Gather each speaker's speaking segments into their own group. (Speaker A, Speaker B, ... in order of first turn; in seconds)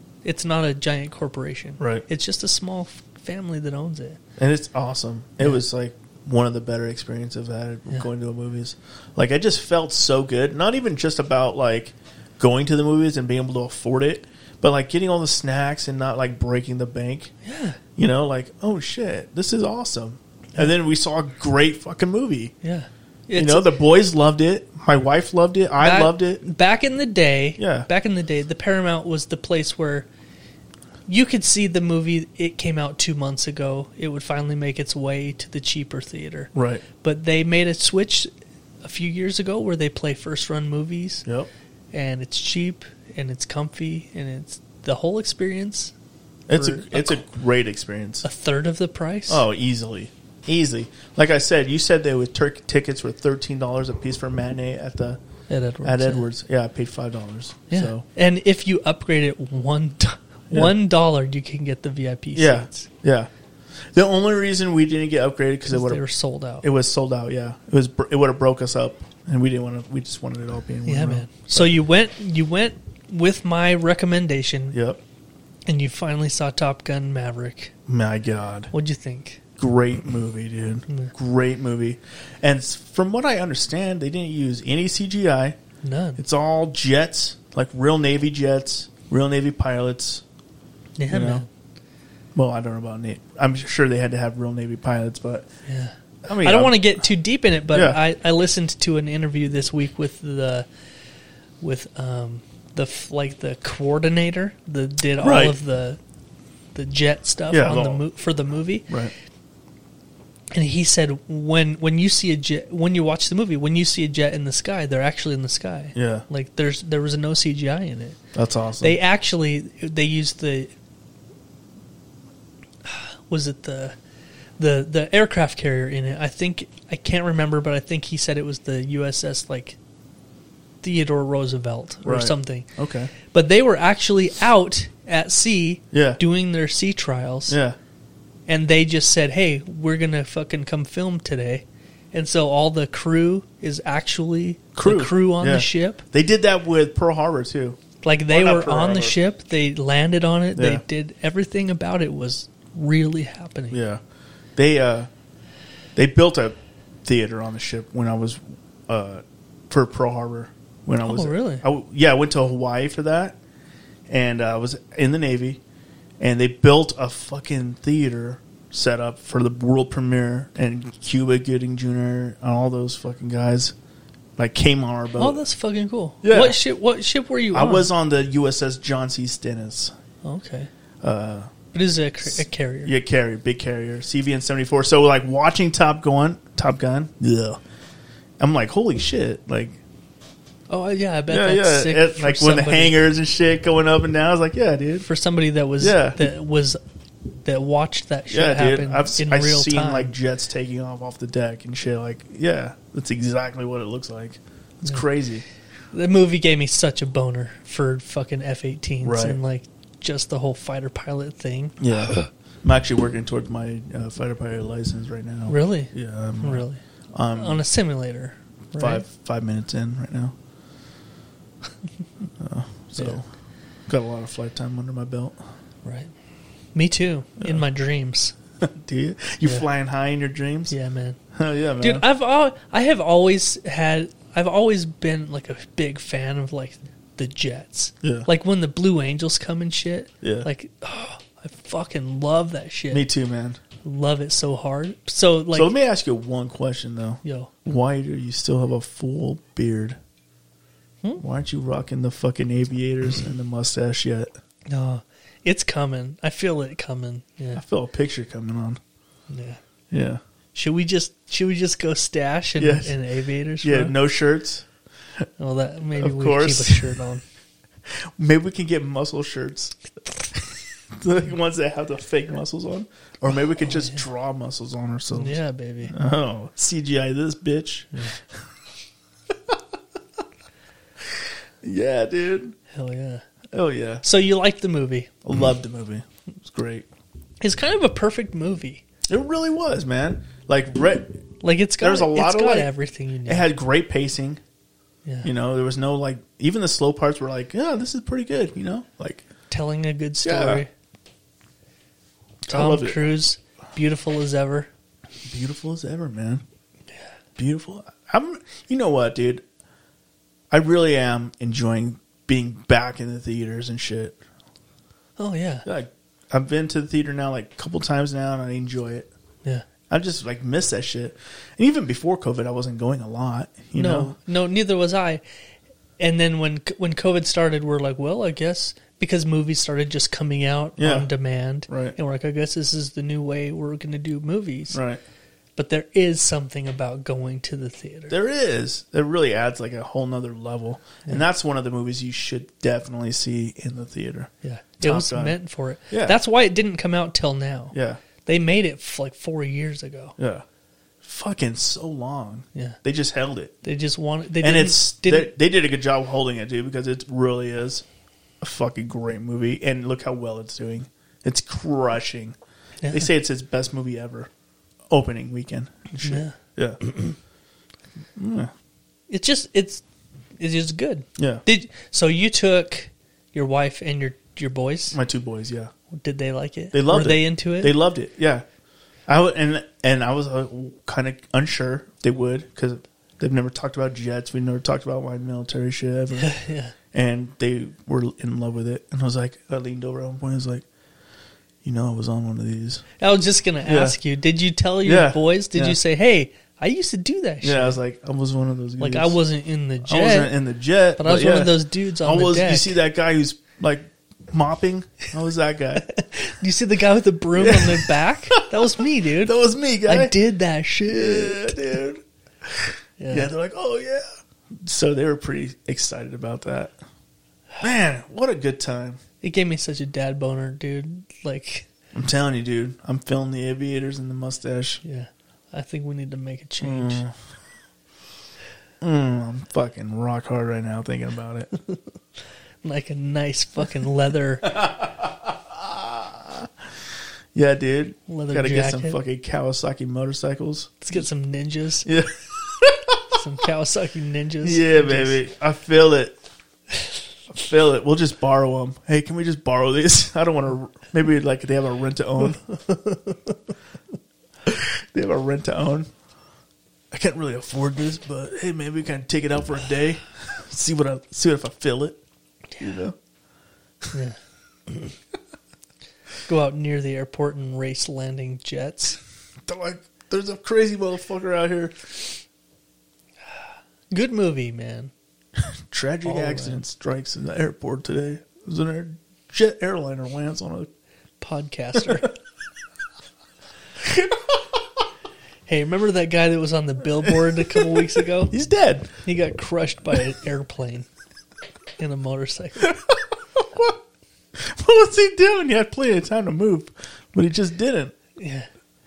Speaker A: 0.2-4.2, 17.4-17.8, 22.6-23.7, 25.8-30.1, 31.1-38.3, 38.8-41.2, 41.9-45.9, 46.5-47.2, 48.2-49.4, 55.5-56.3, 57.7-62.9, 65.7-66.6, 70.8-74.8, 75.7-77.7, 78.7-79.4, 80.9-81.1, 85.8-86.2, 91.0-91.5, 95.7-100.7, 101.6-106.0, 106.7-108.9, 110.5-118.2, 118.8-120.7, 122.8-123.9, 124.6-129.8, 130.8-132.7, 133.2-137.6, 138.5-146.0, 148.0-153.8, 161.0-161.6, 175.2-177.9, 180.2-180.7, 181.7-182.9, 190.7-192.9, 195.0-196.8, 197.4-200.1, 205.9-212.3, 215.5-216.8, 217.3-219.0, 225.8-226.1, 226.7-228.3, 230.7-231.2, 231.8-243.0, 243.8-245.7, 247.2-247.5, 254.7-257.6, 259.3-259.6, 260.5-263.9, 265.4-267.2, 275.1-275.9, 282.7-283.2, 284.0-285.1, 287.4-288.8, 291.4-293.5, 299.5-300.7, 302.5-304.7, 315.2-315.7, 323.7-325.2, 326.0-334.8, 335.6-338.1, 344.4-347.7, 348.2-350.2, 353.6-355.3, 362.8-363.1, 366.0-366.4, 369.1-369.8, 370.4-375.0, 375.9-377.8, 386.1-386.7, 393.0-397.8, 398.8-400.3, 401.0-402.8, 405.8-411.6, 413.0-413.3, 419.2-421.7, 424.8-427.0, 431.5-431.8, 432.6-434.7, 438.1-439.0, 440.8-441.9, 443.1-445.2, 463.9-464.2, 466.3-469.0, 473.9-474.9, 476.0-476.6, 481.2-482.1, 485.4-488.3, 489.0-490.9, 491.8-492.7, 498.1-498.5
Speaker B: 1.8-2.0, 4.4-17.3, 18.0-22.5, 23.4-26.4, 27.6-27.9, 36.5-36.8, 41.2-41.5, 46.5-48.2, 49.3-55.2, 55.8-58.0, 60.5-60.7, 62.3-63.3, 63.9-66.0, 66.6-71.7, 74.7-75.0, 77.9-78.7, 79.6-85.6, 86.2-90.2, 91.1-91.4, 92.3-95.5, 96.2-97.0, 97.7-98.0, 105.2-105.6, 107.5-108.0, 115.9-116.2, 118.3-119.0, 132.0-133.1, 135.9-136.2, 137.5-137.8, 144.7-147.8, 148.3-149.2, 150.5-150.8, 153.7-154.0, 154.6-155.1, 155.9-163.4, 164.1-165.6, 166.2-173.7, 174.4-175.4, 176.2-176.6, 177.5-179.9, 181.0-181.5, 182.2-187.6, 188.4-189.8, 191.3-195.1, 195.8-196.2, 198.3-205.4, 209.0-209.4, 211.8-217.6, 218.8-220.3, 222.4-223.2, 223.9-225.4, 228.6-230.7, 231.3-232.0, 238.0-238.3, 240.2-240.5, 242.9-243.6, 245.5-250.0, 251.2-254.3, 257.5-258.8, 259.9-260.2, 262.6-263.0, 263.6-264.7, 265.9-266.9, 267.9-269.8, 270.3-278.0, 279.3-279.6, 281.1-282.5, 283.5-284.0, 285.2-286.9, 289.1-291.2, 291.8-292.7, 293.2-294.4, 295.2-299.2, 300.2-300.6, 302.4-303.1, 305.3-306.4, 307.4-309.4, 310.5-314.2, 315.6-319.1, 319.9-324.1, 330.8-331.1, 331.7-332.0, 334.7-335.0, 338.1-345.4, 345.9-346.2, 347.7-348.0, 350.2-350.4, 351.0-353.6, 354.4-357.8, 358.4-362.4, 362.9-364.3, 364.9-366.8, 368.1-368.5, 371.2-371.4, 374.9-375.7, 376.7-378.4, 379.1-386.3, 386.9-390.6, 391.6-392.8, 393.6-394.0, 394.8-395.8, 397.4-399.2, 399.8-405.9, 407.3-410.1, 410.9-416.8, 417.6-419.0, 421.9-424.8, 426.6-427.1, 428.8-431.5, 434.5-436.5, 437.3-440.8, 441.9-443.1, 444.4-446.2, 447.3-452.4, 454.4-455.9, 456.9-462.0, 462.6-462.9, 469.4-472.0, 475.4-480.7, 483.8-484.3, 487.1-487.7, 488.3-488.9, 492.6-493.7, 494.3-497.9